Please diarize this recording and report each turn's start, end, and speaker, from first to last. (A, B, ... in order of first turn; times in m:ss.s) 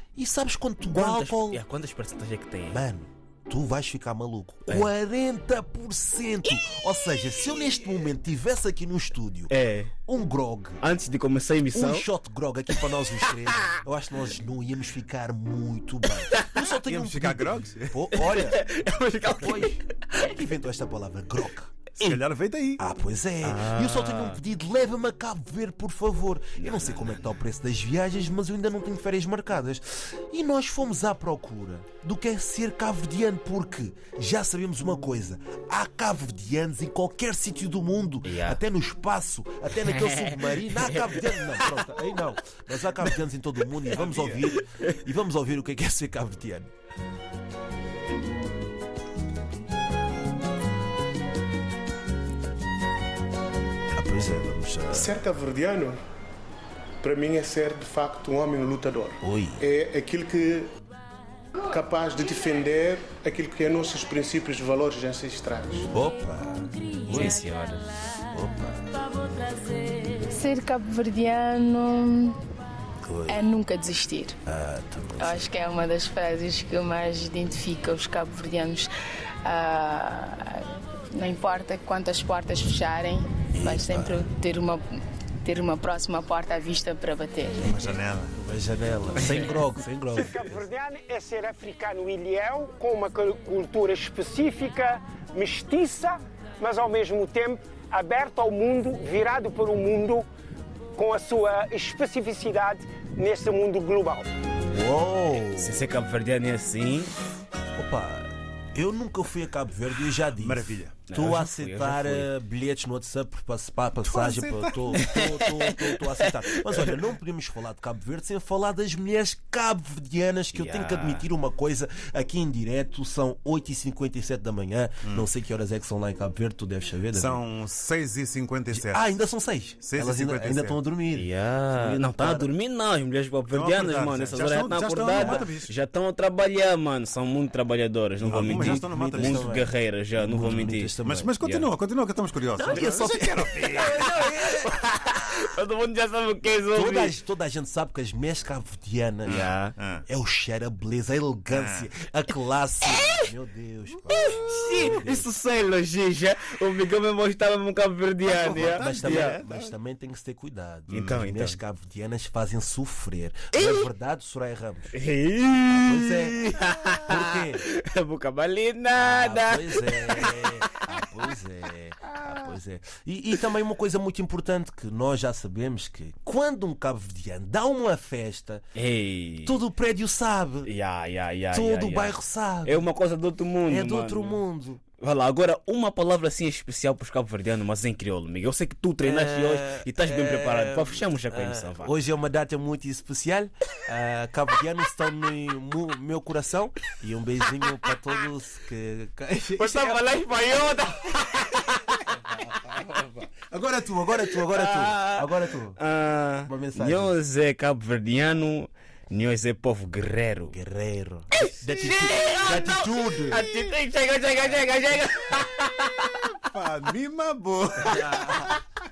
0:00.2-0:01.6 A
0:00.9-0:02.8 B
0:02.7-0:10.8 A
0:09.5-0:09.9 B
0:10.8-0:12.1 B
0:11.7-0:18.6 A
0:16.3-0:16.6 B
0:16.6-0:18.1 C
0:18.1-0:20.4 B
0:19.2-0:21.7 A
0:22.0-0:22.8 C
0:22.8-0:46.7 A
0:23.4-0:24.4 B
0:26.6-0:27.1 B
0:38.2-0:38.6 B
0:39.8-0:41.7 B
0:44.0-0:44.5 C
0:53.9-0:55.2 A
0:54.9-0:55.9 D
0:57.0-1:00.7 D
0:59.2-0:59.6 A
1:01.7-1:05.9 D
1:05.9-1:07.4 A
1:07.1-1:08.1 B
1:08.2-1:09.0 A
1:10.2-1:12.4 E
1:13.0-1:13.4 A
1:13.3-1:14.4 E
1:14.4-1:15.5 A
1:15.2-1:18.9 E
1:19.4-1:24.8 E
1:23.5-1:24.3 A
1:25.4-1:27.6 E
1:27.6-1:28.4 C
1:28.3-1:30.7 A
1:30.1-1:40.3 F
1:41.0-1:44.3 F
1:44.6-1:45.8 A
1:45.5-1:47.1 B
1:47.8-2:07.4 A
1:50.4-1:51.1 C
1:51.1-1:52.3 B
1:54.0-1:55.4 C
1:55.0-1:56.9 B
2:00.5-2:01.2 B
2:07.1-2:09.2 C
2:08.7-2:12.5 A
2:09.8-2:10.8 C
2:11.1-2:21.7 B
2:13.5-2:15.7 C
2:15.1-2:15.5 A
2:18.2-2:19.6 C
2:18.3-2:21.3 A
2:20.4-2:24.6 C
2:22.6-2:24.4 A
2:22.6-2:27.1 B
2:26.7-2:29.5 A
2:29.2-2:29.7 B
2:29.3-2:30.0 C
2:30.0-2:35.3 A
2:31.5-2:31.9 C
2:32.9-2:33.2 B
2:34.1-2:39.6 B
2:38.3-2:44.9 A
2:40.9-2:41.2 C
2:40.9-2:41.6 B
2:43.5-2:43.8 B
2:44.9-2:50.8 B
2:45.6-2:47.6 A
2:48.9-2:58.6 A
2:58.7-2:59.6 B
2:59.4-3:00.7 A
3:00.6-3:04.4 B
3:01.5-3:02.8 A
3:03.7-3:04.8 A
3:05.0-3:11.9 B
3:09.0-3:20.2 A
3:19.6-3:23.2 B
3:23.3-3:25.8 A
3:24.3-3:30.5 B
3:26.4-3:27.2 A
3:30.5-3:33.4 A
3:31.4-3:36.4 B
3:36.4-3:38.5 C
3:37.8-3:38.5 A